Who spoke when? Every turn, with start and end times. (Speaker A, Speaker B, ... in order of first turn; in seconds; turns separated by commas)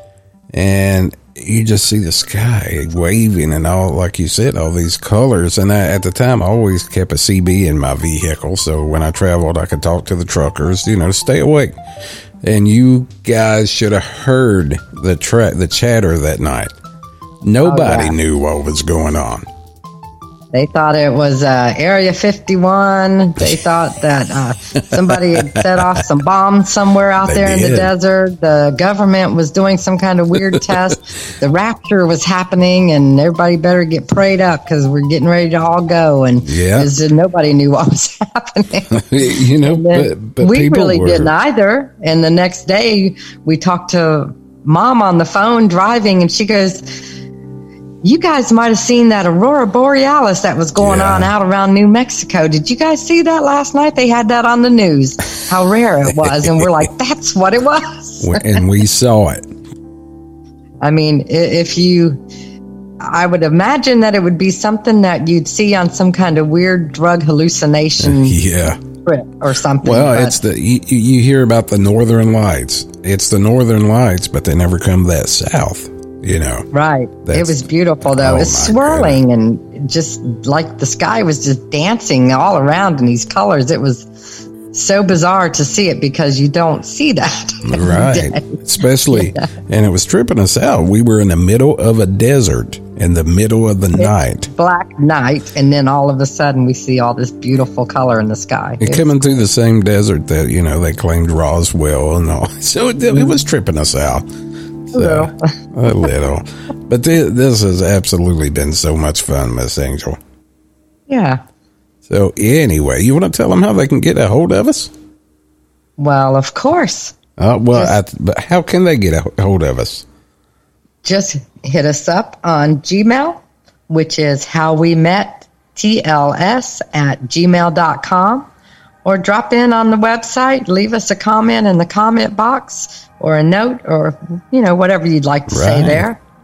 Speaker A: 0.5-11.8, Speaker A: 12.4-16.7, Speaker A: 17.4-19.4, Speaker B: 17.6-18.1, Speaker B: 20.5-39.0, Speaker A: 24.9-26.0, Speaker A: 27.2-27.9, Speaker A: 30.3-30.9, Speaker A: 36.4-36.9, Speaker A: 38.9-41.3, Speaker B: 39.6-47.1, Speaker B: 48.0-58.6, Speaker A: 50.8-51.3, Speaker A: 58.2-59.4, Speaker B: 60.8-62.2, Speaker B: 63.0-68.4, Speaker A: 68.0-68.8, Speaker B: 69.0-70.4, Speaker A: 69.8-76.7, Speaker B: 76.7-84.1, Speaker A: 77.2-79.2, Speaker B: 84.7-89.5, Speaker A: 87.7-94.5, Speaker B: 94.0-99.2, Speaker A: 98.8-104.2, Speaker A: 104.9-110.2, Speaker B: 104.9-105.5, Speaker B: 111.1-111.4, Speaker A: 112.0-114.9, Speaker B: 116.0-117.2, Speaker A: 117.4-120.0, Speaker B: 121.0-128.5, Speaker B: 129.0-136.2, Speaker A: 135.5-136.1